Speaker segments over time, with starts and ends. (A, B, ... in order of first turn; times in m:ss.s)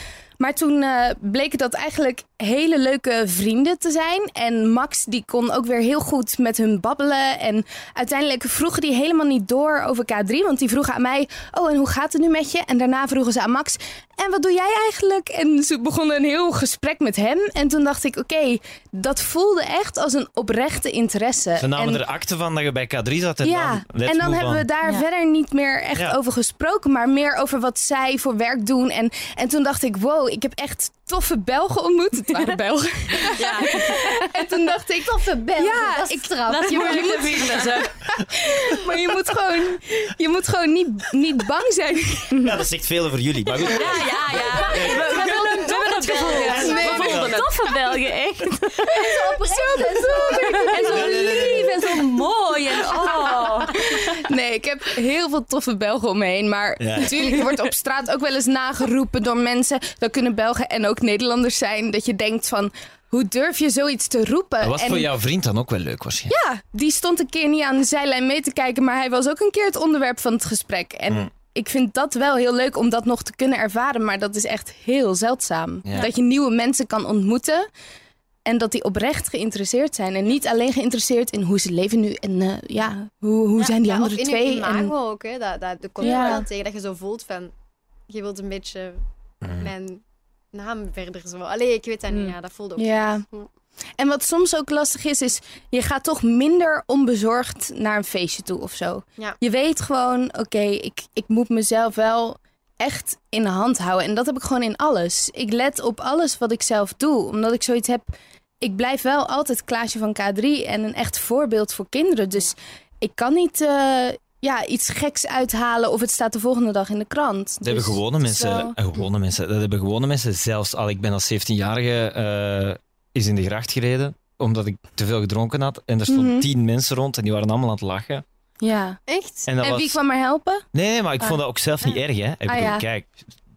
0:00.4-0:22.0 A
0:21.6-0:24.7 B
0:23.4-0:42.5 A
0:33.4-0:34.2 C
0:34.6-0:37.7 D
0:36.5-0:37.9 C
0:42.4-0:45.5 B
0:43.7-0:47.7 C
0:44.7-0:45.2 D
0:44.8-0:47.2 A
0:46.3-0:47.4 B
0:46.5-0:48.9 E
0:48.9-0:52.2 A
0:48.9-0:51.4 D
0:50.6-0:53.8 C
0:50.8-0:51.9 B
0:52.5-0:53.4 E
0:53.0-0:53.7 D
0:53.8-1:05.1 A
0:56.8-0:57.3 B
1:04.6-1:06.4 B
1:06.3-1:17.7 A
1:15.8-1:16.1 B
1:18.5-1:24.9 A
1:23.6-1:27.5 D
1:26.0-1:26.5 A
1:28.1-1:33.1 D
1:29.4-1:29.7 B
1:32.8-1:33.2 A
1:34.0-1:48.1 A
1:48.6-1:58.8 A
1:57.6-2:08.2 B
2:06.1-2:06.5 A
2:08.6-2:09.0 A
2:09.1-2:09.5 D
2:09.5-2:10.0 B
2:09.6-2:10.6 A
2:10.7-2:13.2 B
2:12.5-2:12.9 A